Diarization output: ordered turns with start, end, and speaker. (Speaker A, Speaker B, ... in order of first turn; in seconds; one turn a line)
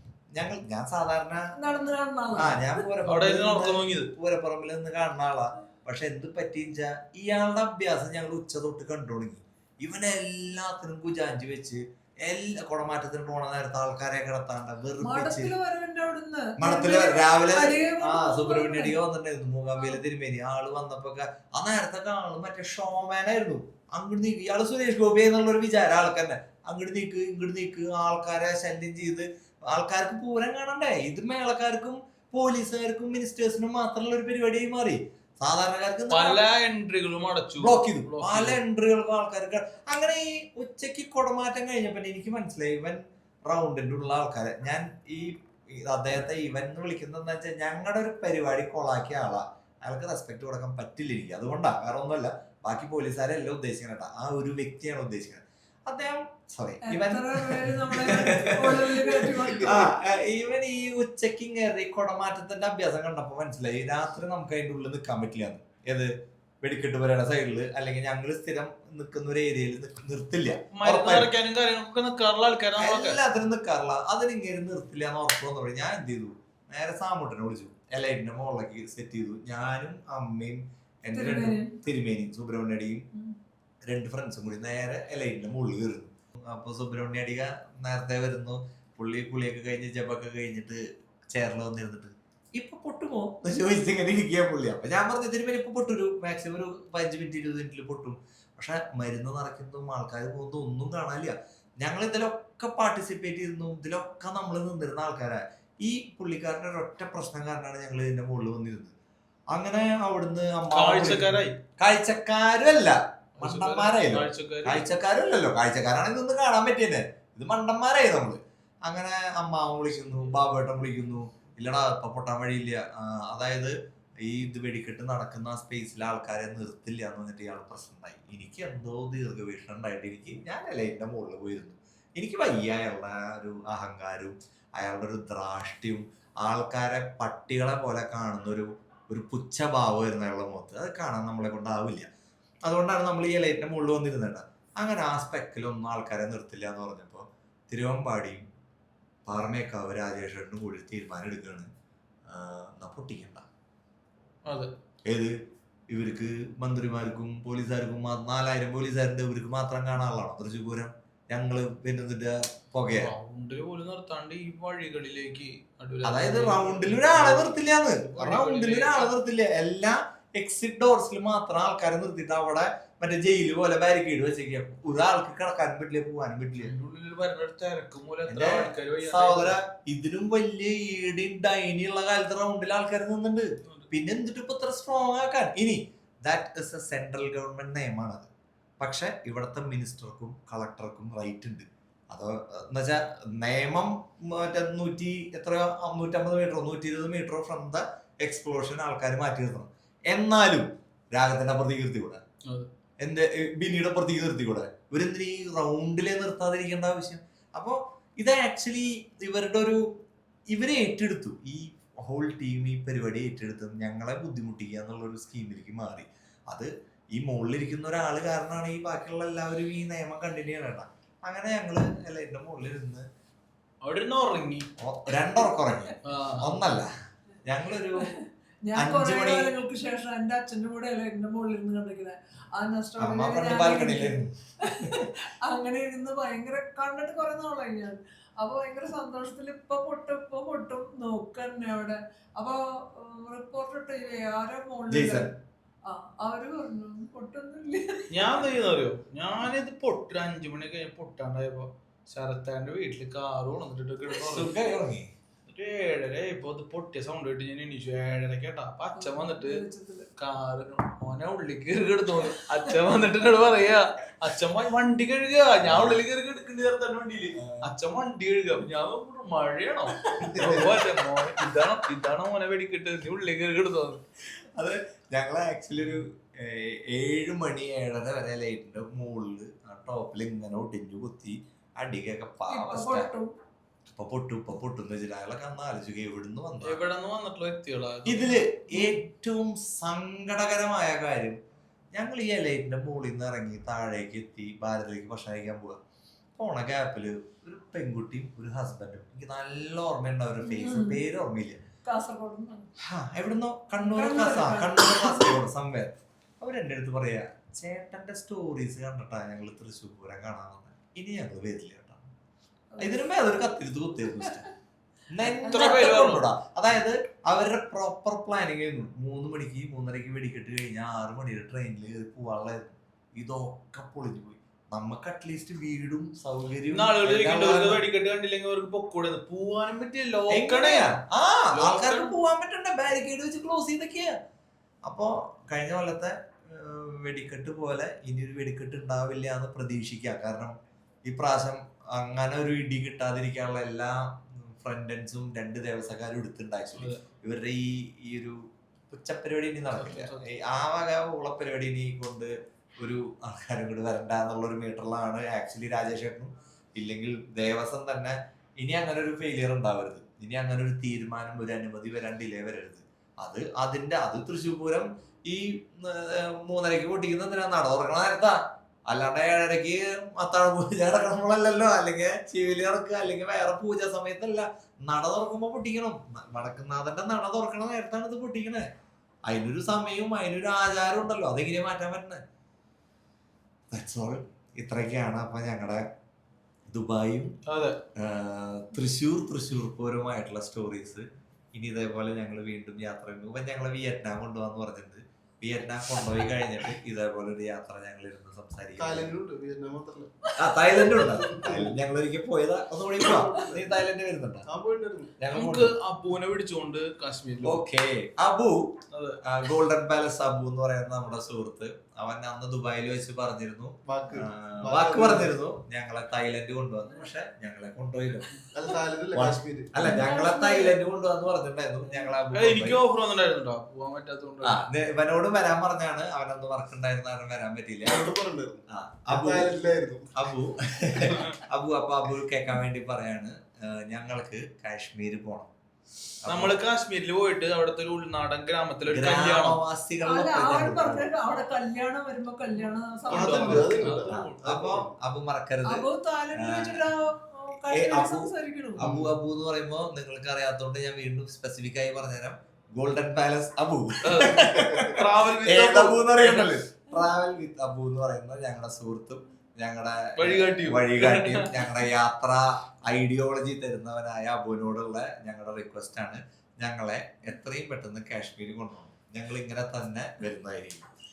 Speaker A: 0.3-1.5
Speaker B: 1.5-2.8
Speaker A: 2.3-15.5
Speaker C: 3.0-4.1
Speaker B: 15.0-19.0
Speaker A: 16.6-36.4
Speaker C: 36.1-38.6
Speaker A: 37.6-66.1
Speaker B: 56.9-59.9
Speaker A: 66.6-71.3
Speaker C: 70.7-73.2
Speaker A: 72.8-83.0
Speaker B: 81.1-81.8
Speaker A: 83.9-108.9
Speaker A: 109.5-142.1
Speaker C: 110.7-111.5
Speaker C: 113.4-114.8
Speaker A: 142.6-148.4
Speaker A: 149.2-151.7
Speaker A: 152.3-153.4
Speaker A: 155.1-155.3
Speaker A: 155.9-163.1
Speaker C: 162.9-169.1
Speaker A: 166.0-176.7
Speaker C: 176.6-179.6
Speaker A: 178.3-188.3
Speaker A: 188.8-202.2
Speaker A: 203.0-209.8
Speaker A: 210.5-223.1
Speaker C: 223.8-224.7
Speaker A: 224.8-226.9
Speaker C: 226.0-226.5
Speaker A: 227.4-228.1
Speaker B: 228.0-245.3
Speaker A: 228.7-229.5
Speaker A: 233.0-235.1
Speaker A: 244.9-245.3
Speaker B: 245.8-248.1
Speaker C: 248.1-254.5
Speaker A: 254.2-255.1
Speaker C: 255.5-259.6
Speaker B: 258.9-260.1
Speaker C: 260.2-274.0
Speaker A: 265.6-266.0
Speaker A: 267.4-267.6
Speaker A: 270.1-270.7
Speaker D: 270.3-270.6
Speaker A: 274.6-283.1
Speaker B: 282.5-283.3
Speaker A: 283.9-286.8
Speaker C: 286.6-288.4
Speaker A: 288.1-291.4
Speaker A: 291.9-295.8
Speaker A: 296.4-301.6
Speaker B: 300.4-301.0
Speaker B: 301.9-302.7
Speaker A: 302.8-312.1
Speaker B: 303.8-305.3
Speaker B: 312.7-313.1
Speaker A: 312.8-314.4
Speaker A: 315.1-327.8
Speaker B: 315.4-315.7
Speaker C: 315.4-316.2
Speaker C: 326.7-330.9
Speaker A: 330.3-334.1
Speaker C: 331.5-332.1
Speaker A: 334.9-340.6
Speaker A: 341.1-348.4
Speaker A: 348.9-378.7
Speaker C: 349.7-350.2
Speaker A: 379.3-382.2
Speaker A: 383.7-385.8
Speaker A: 386.7-387.3
Speaker C: 387.5-387.8
Speaker A: 387.9-399.1
Speaker D: 398.8-400.1
Speaker A: 400.4-404.5
Speaker D: 400.9-401.7
Speaker D: 403.0-403.7
Speaker D: 404.5-405.1
Speaker A: 405.2-405.7
Speaker C: 405.3-407.6
Speaker A: 407.4-408.7
Speaker C: 408.9-409.2
Speaker A: 409.2-418.3
Speaker D: 413.9-415.3
Speaker D: 418.5-419.7
Speaker A: 419.1-422.8
Speaker B: 419.8-420.8
Speaker C: 422.3-424.6
Speaker A: 424.4-428.1
Speaker D: 427.8-430.1
Speaker A: 428.7-429.5
Speaker A: 430.1-435.5
Speaker C: 431.0-431.4
Speaker A: 436.2-436.6
Speaker C: 436.2-439.6
Speaker A: 438.9-441.1
Speaker B: 440.0-444.0
Speaker C: 443.1-444.7
Speaker D: 443.1-444.9
Speaker A: 444.1-446.9
Speaker B: 445.6-448.8
Speaker A: 447.7-470.8
Speaker D: 448.8-449.1
Speaker C: 454.0-456.6
Speaker C: 460.2-461.7